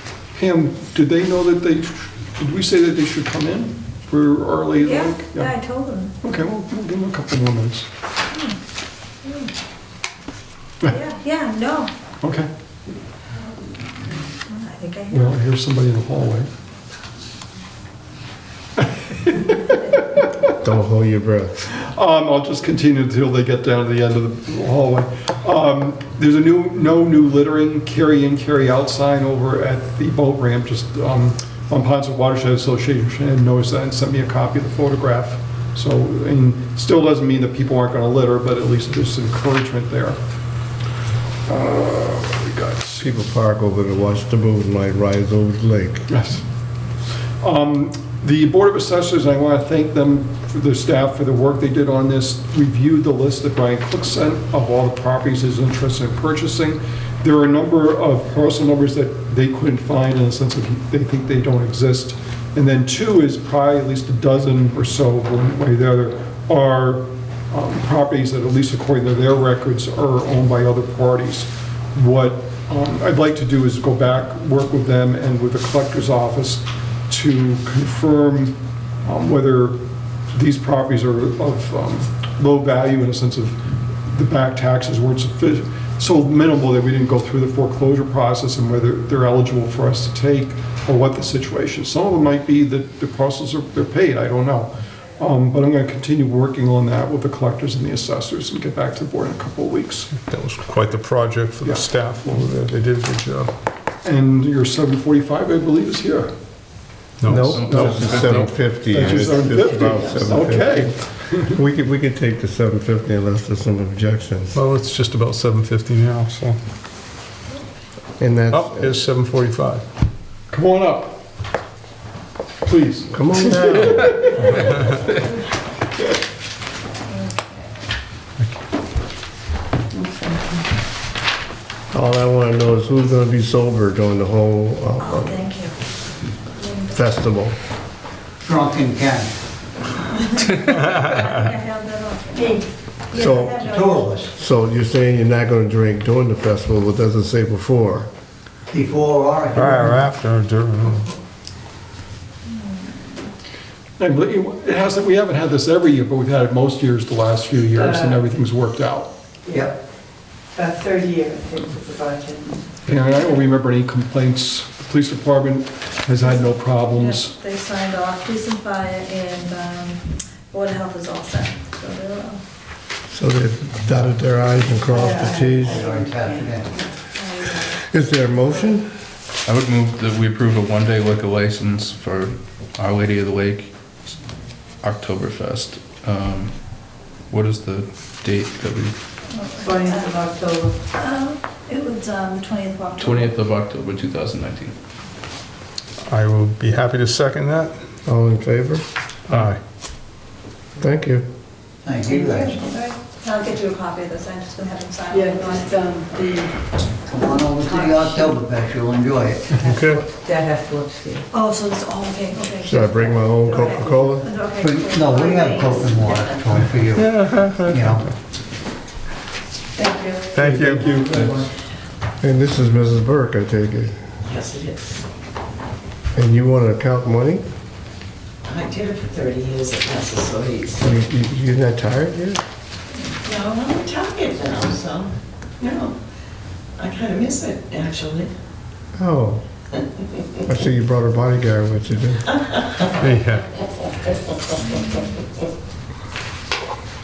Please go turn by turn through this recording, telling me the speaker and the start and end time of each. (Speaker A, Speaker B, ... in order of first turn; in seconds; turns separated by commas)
Speaker A: 0.3-5.5, Speaker B: 4.8-6.1, Speaker A: 6.2-7.9, Speaker B: 9.2-9.5, Speaker B: 10.8-11.9, Speaker A: 12.2-12.5, Speaker B: 14.5-15.3, Speaker A: 15.1-16.5, Speaker A: 18.8-19.9, Speaker C: 20.6-21.6, Speaker A: 21.7-40.2, Speaker A: 41.5-43.1, Speaker C: 43.0-46.0, Speaker A: 46.1-46.4, Speaker A: 47.4-79.8, Speaker A: 80.3-100.1, Speaker D: 100.1-103.5, Speaker A: 101.6-102.4, Speaker A: 104.0-106.3, Speaker D: 107.2-108.5, Speaker C: 107.2-114.6, Speaker E: 107.5-108.5, Speaker A: 107.7-108.2, Speaker A: 108.9-111.5, Speaker F: 109.2-110.3, Speaker D: 114.5-116.6, Speaker C: 118.2-119.0, Speaker D: 118.5-119.8, Speaker A: 120.5-121.2, Speaker A: 122.6-124.3, Speaker C: 123.1-124.7, Speaker B: 127.1-127.7, Speaker G: 129.9-130.7, Speaker C: 131.9-135.4, Speaker B: 135.0-135.7, Speaker B: 136.6-136.9, Speaker C: 136.9-137.5, Speaker H: 138.4-139.3, Speaker B: 140.1-144.2, Speaker G: 142.3-142.7, Speaker C: 143.1-143.7, Speaker H: 143.6-144.3, Speaker C: 144.2-148.1, Speaker H: 148.7-150.1, Speaker D: 149.5-151.0, Speaker A: 154.0-159.1, Speaker G: 157.7-158.2, Speaker G: 159.4-159.7, Speaker G: 160.5-162.6, Speaker A: 162.8-167.3, Speaker B: 166.2-172.4, Speaker C: 173.1-175.8, Speaker G: 174.9-176.9, Speaker H: 175.6-176.7, Speaker B: 177.1-177.9, Speaker C: 177.9-178.9, Speaker E: 179.4-183.7, Speaker E: 184.8-186.6, Speaker E: 187.3-188.9, Speaker B: 189.3-190.2, Speaker G: 189.6-190.8, Speaker B: 190.9-193.3, Speaker E: 193.0-194.7, Speaker D: 196.1-197.7, Speaker C: 198.1-198.8, Speaker D: 199.3-199.6, Speaker C: 200.8-201.2, Speaker H: 201.8-202.7, Speaker B: 202.0-206.0, Speaker G: 205.1-206.6, Speaker H: 207.1-209.6, Speaker B: 207.6-208.3, Speaker G: 209.6-211.2, Speaker D: 209.7-210.0, Speaker B: 211.3-216.1, Speaker C: 212.6-214.3, Speaker H: 214.6-217.1, Speaker F: 215.8-216.3, Speaker D: 216.9-218.0, Speaker H: 217.7-218.0, Speaker G: 219.8-221.1, Speaker D: 220.3-221.3, Speaker A: 220.6-221.2, Speaker H: 221.2-221.4, Speaker C: 222.2-224.0, Speaker F: 224.2-225.0, Speaker C: 226.1-227.4, Speaker F: 228.4-231.0, Speaker C: 230.8-232.4, Speaker F: 233.2-235.9, Speaker F: 236.8-238.3, Speaker C: 238.9-239.4, Speaker C: 240.4-242.2, Speaker F: 242.2-242.9, Speaker D: 243.0-243.4